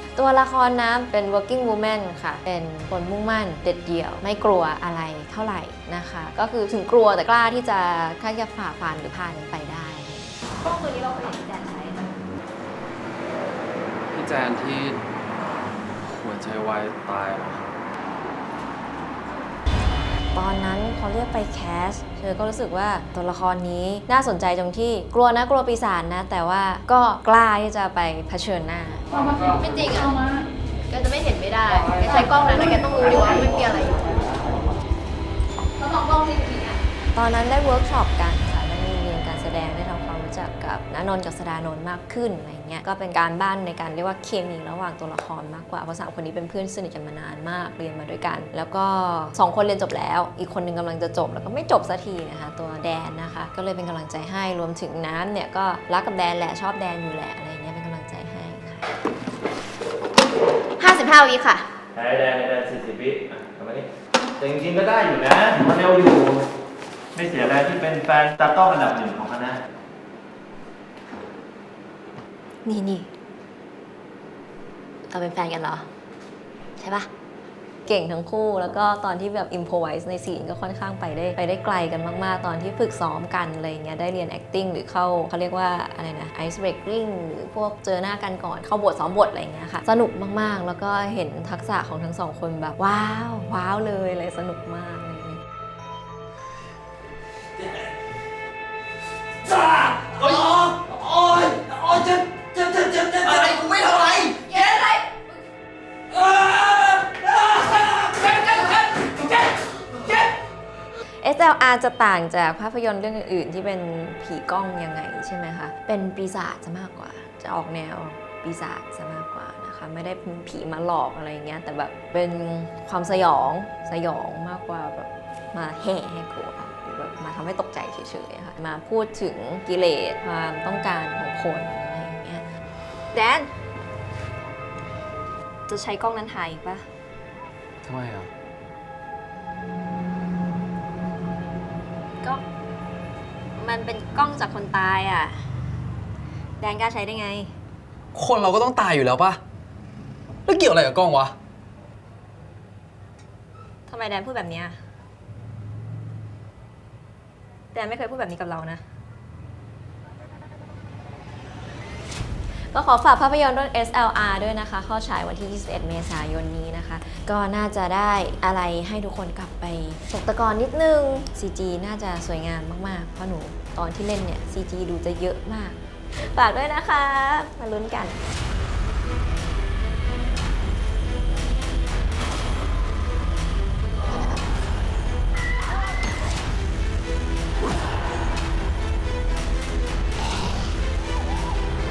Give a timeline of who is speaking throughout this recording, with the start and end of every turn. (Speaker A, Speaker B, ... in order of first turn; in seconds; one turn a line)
Speaker A: 0.2-12.1
Speaker B: 14.1-15.0
Speaker B: 16.0-17.7
Speaker A: 20.3-29.1
Speaker C: 29.3-34.2
Speaker A: 35.8-36.6
Speaker C: 35.8-36.8
Speaker A: 37.1-58.9
Speaker C: 60.8-61.7
Speaker D: 62.0-63.9
Speaker D: 64.4-66.5
Speaker D: 67.2-69.6
Speaker A: 72.7-73.1
Speaker A: 75.1-75.9
Speaker A: 76.8-77.1
Speaker A: 77.9-95.4
Speaker B: 99.7-103.4
Speaker E: 103.5-103.8
Speaker B: 108.2-109.1
Speaker A: 111.2-132.5
Speaker A: 133.1-133.5
Speaker A: 135.7-136.8
Speaker B: 137.8-138.3
Speaker A: 143.6-145.4
Speaker A: 146.6-147.5
Speaker E: 148.1-149.4
Speaker E: 150.4-151.4
Speaker A: 153.9-154.8
Speaker A: 157.7-158.8
Speaker A: 162.7-178.2